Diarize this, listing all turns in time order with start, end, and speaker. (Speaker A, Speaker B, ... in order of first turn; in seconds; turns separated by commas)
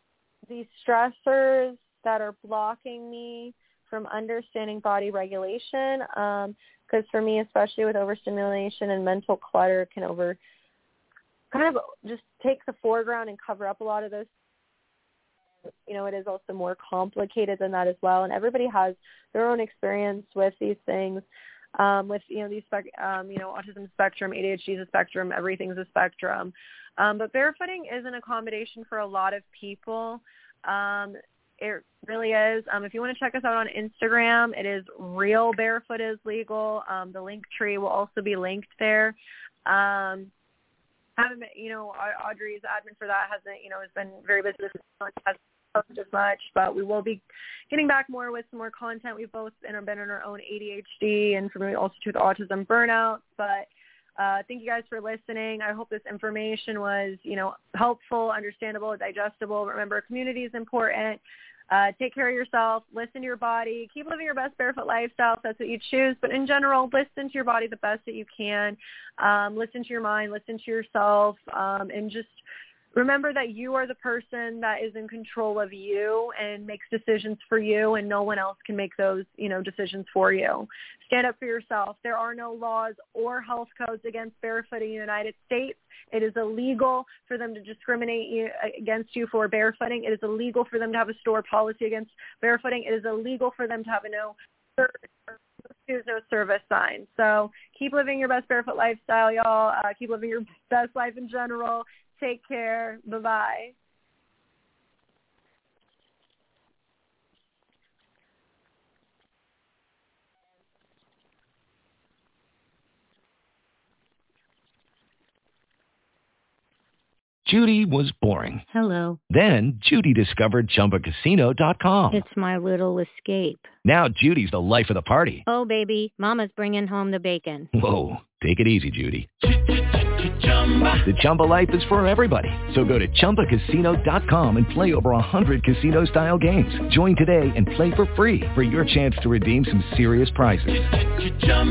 Speaker A: 0.5-10.4, Speaker A: 11.5-14.3, Speaker A: 15.9-21.2, Speaker A: 21.8-39.1, Speaker A: 39.6-40.3, Speaker A: 41.2-72.4, Speaker A: 72.9-95.3, Speaker A: 95.8-103.7, Speaker B: 117.5-118.5, Speaker C: 118.7-119.2, Speaker B: 119.4-122.1, Speaker C: 122.1-123.7, Speaker B: 123.9-125.4, Speaker C: 125.5-127.7, Speaker B: 127.9-129.2, Speaker B: 131.0-139.1, Speaker B: 139.6-140.6